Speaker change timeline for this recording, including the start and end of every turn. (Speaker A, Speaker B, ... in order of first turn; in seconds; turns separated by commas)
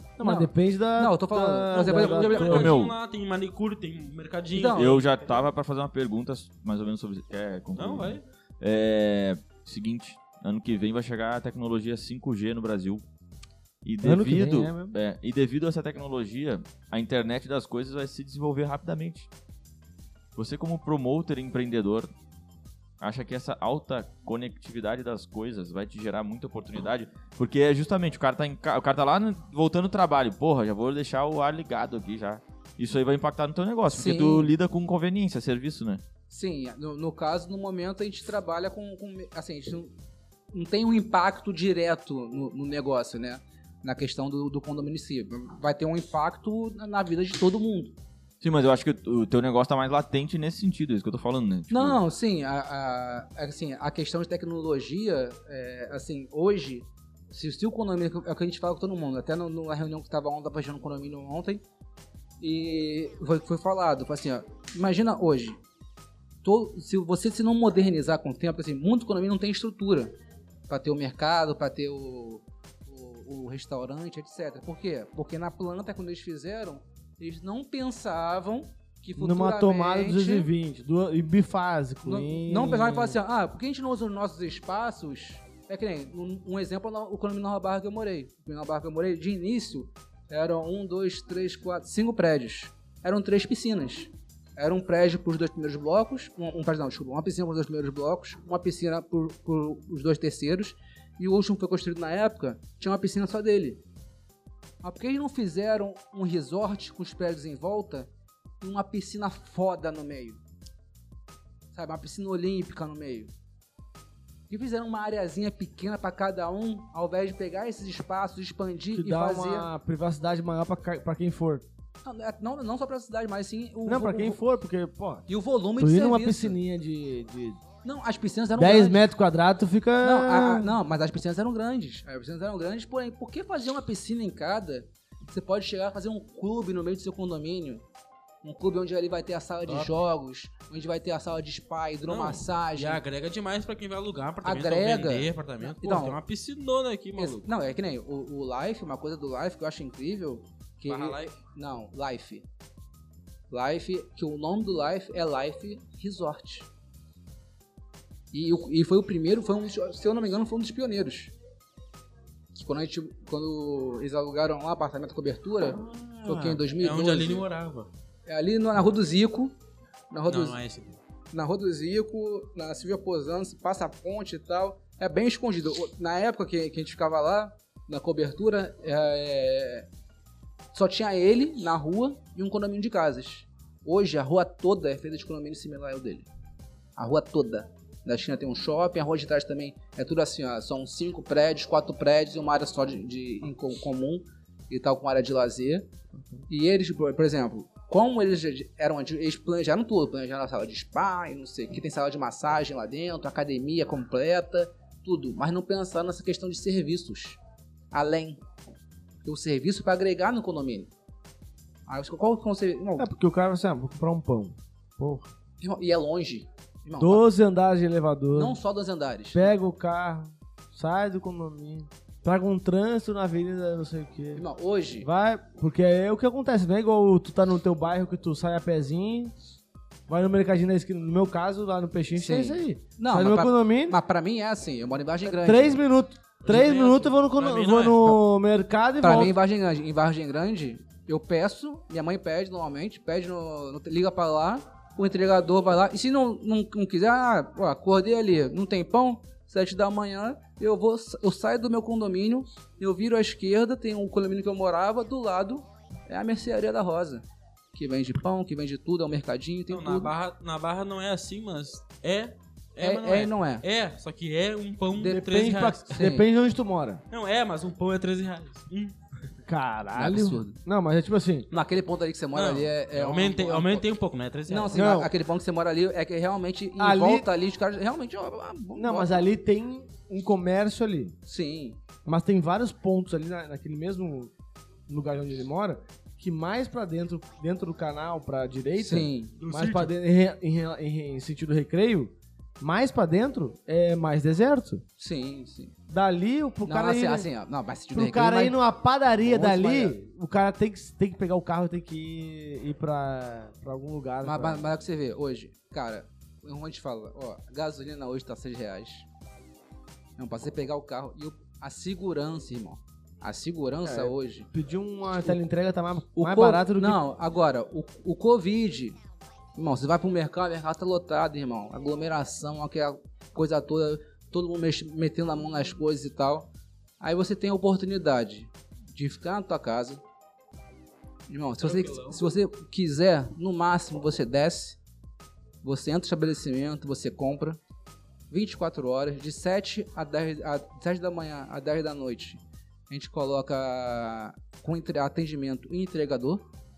Speaker A: 0.2-2.8, Speaker B: 0.2-2.7, Speaker C: 1.7-5.3, Speaker D: 2.4-2.9, Speaker B: 4.5-5.0, Speaker D: 4.7-13.1, Speaker C: 7.8-8.2, Speaker D: 13.8-19.3, Speaker A: 14.0-14.9, Speaker D: 20.4-22.1, Speaker D: 23.0-36.0, Speaker B: 33.9-34.5, Speaker B: 36.3-39.9, Speaker B: 40.5-47.9, Speaker D: 48.4-52.0, Speaker B: 51.7-61.6, Speaker B: 62.4-65.6, Speaker B: 66.4-70.1, Speaker B: 70.7-80.5, Speaker A: 79.2-83.2, Speaker B: 82.0-103.8, Speaker B: 104.8-108.1, Speaker B: 108.6-110.4, Speaker B: 111.7-113.3, Speaker B: 114.5-119.7, Speaker A: 118.9-121.6, Speaker B: 122.0-124.4, Speaker A: 123.8-125.2, Speaker B: 125.3-126.6, Speaker A: 125.8-127.6, Speaker B: 127.8-129.1, Speaker A: 128.6-130.7, Speaker B: 130.0-137.8, Speaker B: 138.4-143.0, Speaker C: 139.7-139.9, Speaker C: 142.1-147.5, Speaker B: 144.4-146.2, Speaker B: 147.2-152.4, Speaker C: 150.9-151.3, Speaker B: 153.5-156.7, Speaker B: 158.3-161.3, Speaker B: 162.5-167.4, Speaker C: 165.8-167.9, Speaker B: 168.3-169.5, Speaker B: 170.1-170.6, Speaker C: 170.3-171.0, Speaker B: 171.3-179.9, Speaker B: 180.7-186.3, Speaker B: 187.0-195.9, Speaker B: 196.5-207.4, Speaker B: 207.9-208.4, Speaker B: 209.2-210.9, Speaker B: 211.9-213.1, Speaker A: 213.0-215.3, Speaker B: 215.6-217.3, Speaker A: 217.0-218.6, Speaker B: 218.3-219.5, Speaker A: 219.3-224.4, Speaker B: 224.3-225.1, Speaker A: 225.0-229.3, Speaker A: 230.1-234.0, Speaker B: 232.2-235.8, Speaker A: 235.2-239.3, Speaker C: 236.4-238.2, Speaker B: 239.0-260.1, Speaker C: 259.7-266.1, Speaker B: 262.8-263.6, Speaker A: 265.0-267.0, Speaker B: 265.9-266.3, Speaker C: 267.1-268.9, Speaker A: 269.4-271.5, Speaker B: 269.9-270.6, Speaker B: 271.5-273.9, Speaker C: 272.3-274.8, Speaker B: 274.5-279.2, Speaker A: 274.7-275.1, Speaker A: 276.8-277.3, Speaker A: 278.7-281.1, Speaker B: 281.2-281.8, Speaker A: 282.0-284.3, Speaker A: 284.9-294.8, Speaker B: 288.8-289.3, Speaker C: 289.4-289.9, Speaker B: 295.0-295.7, Speaker A: 295.9-297.3, Speaker B: 296.6-298.6, Speaker A: 297.9-304.7, Speaker B: 299.2-299.9, Speaker B: 304.2-309.1, Speaker B: 310.2-314.5, Speaker A: 313.8-317.0, Speaker B: 316.2-319.0, Speaker B: 319.6-330.0, Speaker B: 331.3-334.8, Speaker C: 331.6-332.2, Speaker B: 335.6-337.6, Speaker B: 338.3-346.4